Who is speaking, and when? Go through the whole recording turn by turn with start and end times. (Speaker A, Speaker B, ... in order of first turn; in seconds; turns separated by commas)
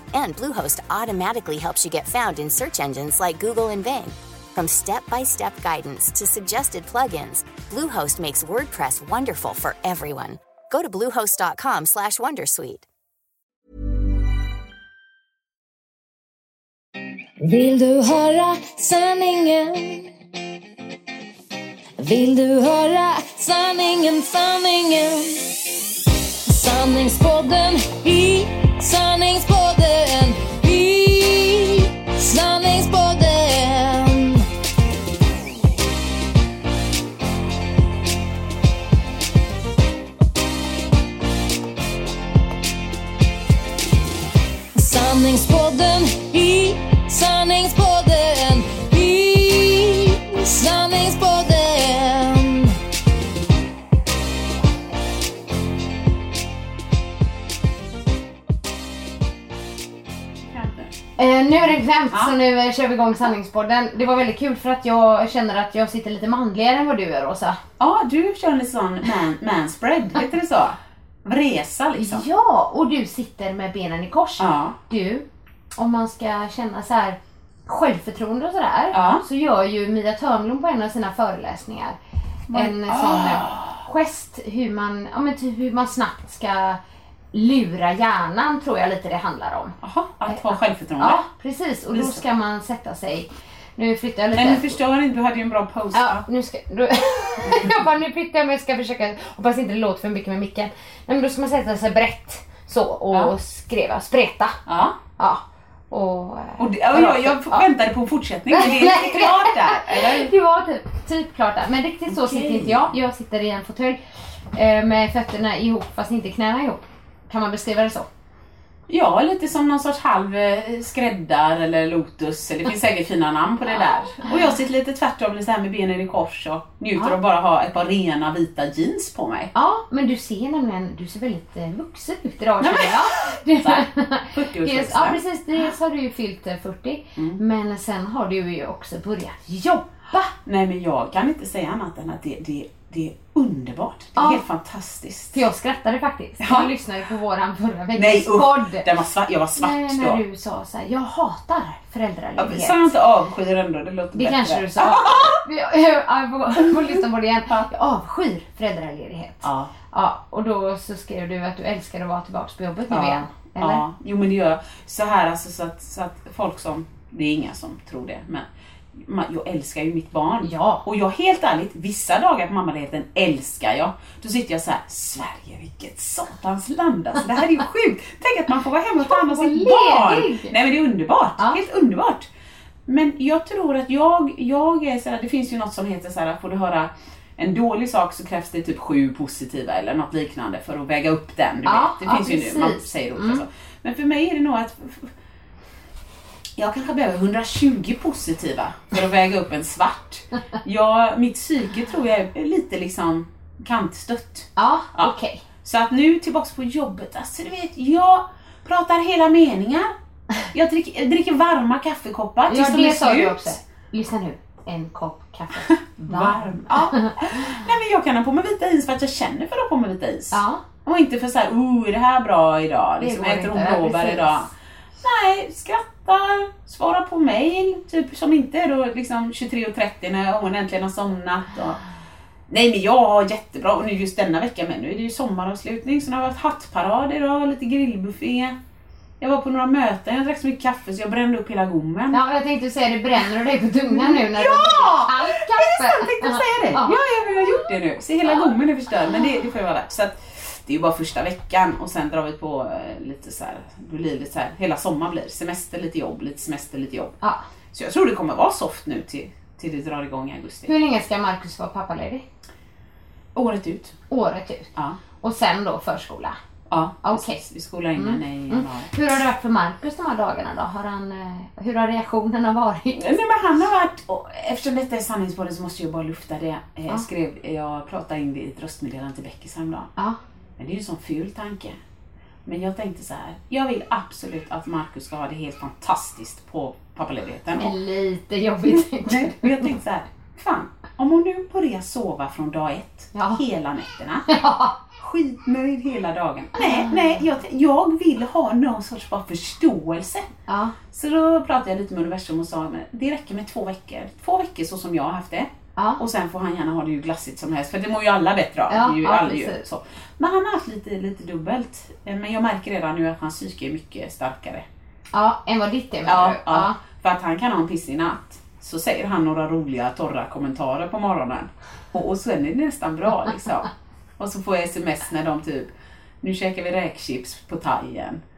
Speaker A: 0.1-12.9, Speaker B: 17.4-20.1, Speaker B: 22.0-25.7, Speaker B: 26.5-34.5, Speaker B: 44.8-52.8, Speaker C: 60.5-60.9, Speaker D: 61.2-67.6, Speaker C: 62.1-62.4, Speaker C: 67.8-72.2, Speaker D: 72.0-75.2, Speaker C: 74.4-74.8, Speaker D: 75.8-82.0, Speaker C: 78.9-79.2, Speaker C: 82.5-83.8, Speaker D: 82.5-86.8, Speaker D: 87.3-89.8, Speaker C: 89.8-91.3, Speaker D: 90.3-94.8, Speaker C: 91.9-92.2, Speaker C: 94.3-96.2, Speaker D: 95.9-104.6, Speaker C: 97.4-97.8, Speaker C: 104.7-105.0, Speaker D: 105.2-107.7, Speaker C: 106.6-110.3, Speaker D: 108.5-114.0, Speaker C: 112.1-112.9, Speaker D: 114.5-118.1, Speaker C: 118.9-129.5, Speaker D: 129.5-140.3, Speaker C: 132.6-135.2, Speaker C: 140.4-145.4, Speaker D: 144.2-144.4, Speaker D: 145.3-148.9, Speaker C: 146.4-146.7, Speaker C: 147.9-150.2, Speaker D: 149.6-152.9, Speaker C: 152.4-155.4, Speaker D: 154.1-163.8, Speaker C: 156.6-157.7, Speaker C: 159.4-159.7, Speaker C: 162.9-182.3, Speaker D: 170.4-170.8, Speaker D: 179.0-180.5, Speaker C: 182.9-195.1, Speaker D: 191.7-193.4, Speaker C: 196.6-205.1, Speaker D: 204.6-205.4, Speaker C: 205.6-209.9, Speaker C: 210.5-213.5, Speaker D: 212.5-217.5, Speaker C: 215.7-224.5, Speaker D: 220.3-220.6, Speaker D: 223.0-224.4, Speaker C: 225.0-231.8, Speaker C: 232.5-238.6, Speaker C: 239.2-242.2, Speaker D: 242.1-247.5, Speaker C: 243.9-257.1, Speaker C: 257.7-260.7, Speaker D: 260.7-262.2, Speaker C: 263.4-264.0, Speaker D: 264.1-266.4, Speaker C: 266.7-268.9, Speaker D: 267.0-267.4, Speaker D: 268.0-273.1, Speaker C: 272.9-279.9, Speaker C: 280.6-281.8, Speaker C: 282.5-287.8, Speaker D: 287.6-289.7, Speaker C: 288.6-294.3, Speaker D: 293.1-293.4, Speaker D: 294.3-294.8, Speaker C: 295.0-300.3, Speaker D: 296.6-297.2, Speaker D: 300.5-300.8, Speaker C: 300.9-314.6, Speaker D: 308.7-309.6, Speaker D: 315.1-316.8, Speaker C: 316.1-328.2